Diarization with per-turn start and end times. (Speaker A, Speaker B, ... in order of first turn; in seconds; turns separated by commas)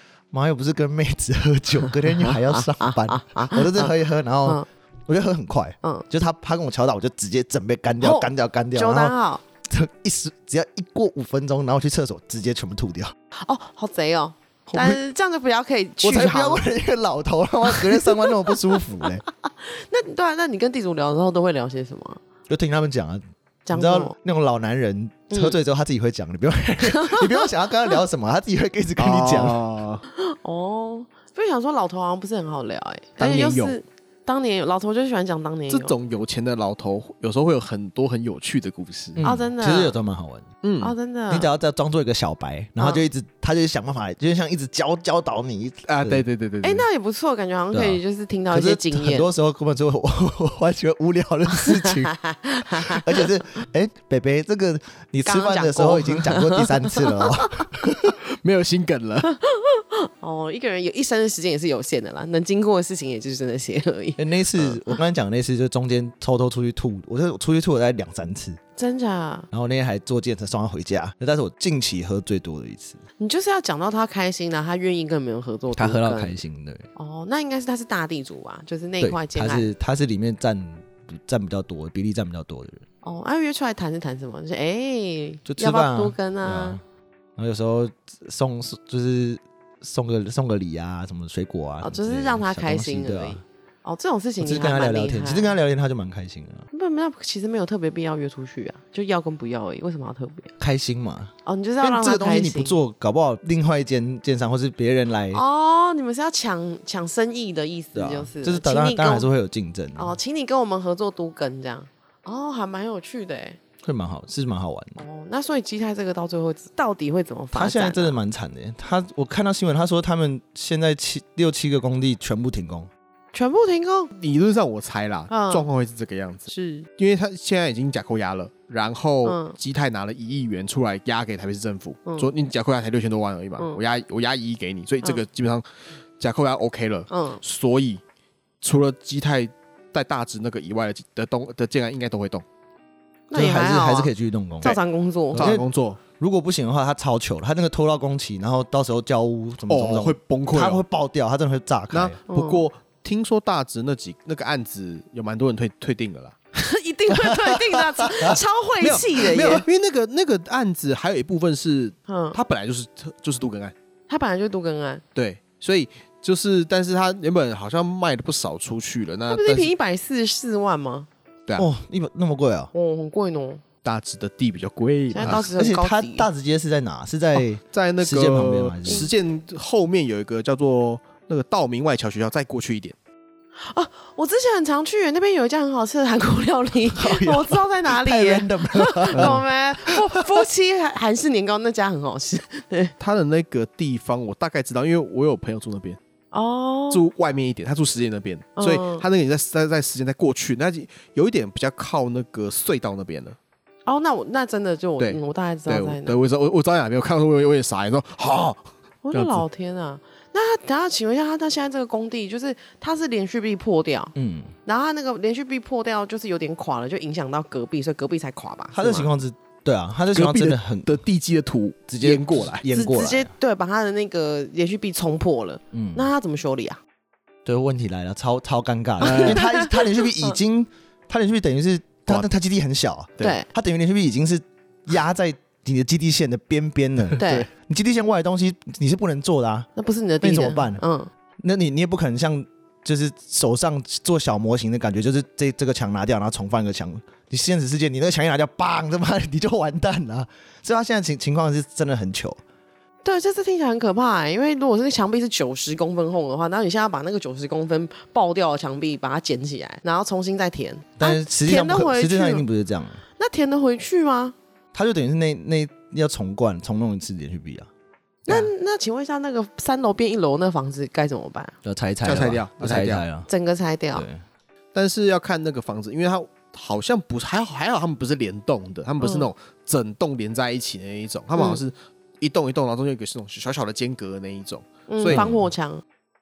Speaker A: 0.3-13.1, Speaker B: 2.2-3.9, Speaker B: 8.0-9.4, Speaker B: 13.4-16.7, Speaker A: 14.7-15.0, Speaker A: 16.0-19.2, Speaker B: 17.7-22.2, Speaker A: 22.5-29.6, Speaker B: 23.7-24.1, Speaker B: 25.3-25.6, Speaker B: 26.8-27.5, Speaker C: 29.0-30.0, Speaker B: 30.1-35.9, Speaker C: 33.2-33.8, Speaker C: 35.7-39.2, Speaker A: 39.2-40.5, Speaker B: 39.2-40.0, Speaker C: 40.6-41.0, Speaker B: 40.8-41.5, Speaker A: 41.3-46.2, Speaker B: 42.8-43.0, Speaker C: 45.9-46.9, Speaker B: 46.6-49.3, Speaker A: 47.7-48.0, Speaker A: 48.5-52.1, Speaker B: 51.6-53.3, Speaker A: 52.7-58.2, Speaker B: 55.3-57.3, Speaker C: 58.3-59.3, Speaker B: 59.3-65.0, Speaker A: 64.2-68.6, Speaker B: 68.8-69.5, Speaker A: 69.5-73.0, Speaker B: 73.2-76.4, Speaker A: 75.8-76.9, Speaker B: 77.0-79.7, Speaker A: 79.0-82.8, Speaker B: 83.0-86.8, Speaker A: 85.5-86.8, Speaker A: 87.4-93.4, Speaker B: 91.8-95.5, Speaker A: 94.4-96.7, Speaker B: 96.7-100.5, Speaker A: 100.6-105.4, Speaker B: 101.5-102.8, Speaker B: 105.3-109.3, Speaker A: 108.0-110.2, Speaker B: 110.0-113.6, Speaker A: 113.8-115.0, Speaker B: 115.0-118.2, Speaker A: 117.5-122.9, Speaker B: 123.3-124.1, Speaker C: 124.2-135.7, Speaker B: 125.3-125.7, Speaker B: 126.5-126.9, Speaker B: 129.2-129.6, Speaker C: 136.2-138.0, Speaker B: 137.1-137.4, Speaker C: 138.6-142.4, Speaker B: 143.3-144.1, Speaker A: 143.3-144.8, Speaker B: 144.6-145.5, Speaker C: 145.3-146.0, Speaker A: 145.3-145.7, Speaker A: 146.2-152.2, Speaker C: 149.7-150.8, Speaker C: 151.9-156.4, Speaker B: 152.3-152.7, Speaker B: 156.6-159.7, Speaker A: 157.1-158.4, Speaker C: 158.8-163.8, Speaker B: 162.1-162.4, Speaker B: 164.1-165.0, Speaker C: 165.2-169.7, Speaker B: 169.3-171.1, Speaker A: 171.6-172.7, Speaker B: 172.7-173.6, Speaker C: 173.8-175.5, Speaker B: 175.1-176.3, Speaker A: 175.2-179.1, Speaker C: 177.4-183.0, Speaker B: 183.6-192.9, Speaker A: 186.9-190.4, Speaker C: 189.2-189.4, Speaker C: 193.0-196.0, Speaker B: 196.3-197.1, Speaker C: 196.9-203.4, Speaker B: 198.6-199.1, Speaker B: 203.9-206.2, Speaker C: 205.0-209.4, Speaker B: 209.0-214.2, Speaker A: 214.2-214.5, Speaker B: 214.7-219.1, Speaker A: 218.7-221.0, Speaker C: 220.1-222.7, Speaker A: 221.9-223.3, Speaker B: 222.7-226.8, Speaker A: 225.7-226.1, Speaker A: 227.4-239.7, Speaker C: 229.0-229.4, Speaker B: 229.0-230.3, Speaker B: 233.2-233.5, Speaker C: 237.1-237.5, Speaker B: 237.2-237.5, Speaker B: 239.8-241.1, Speaker A: 240.2-240.8, Speaker A: 241.4-252.4, Speaker B: 253.0-262.4, Speaker A: 261.0-263.0, Speaker B: 263.2-264.4, Speaker A: 264.7-267.7, Speaker B: 268.3-271.6, Speaker A: 271.6-273.3, Speaker C: 272.0-273.0, Speaker B: 273.3-274.1, Speaker A: 273.9-274.2, Speaker C: 274.7-285.3, Speaker B: 279.0-279.3, Speaker B: 281.4-281.6, Speaker B: 284.9-285.8, Speaker A: 285.1-285.5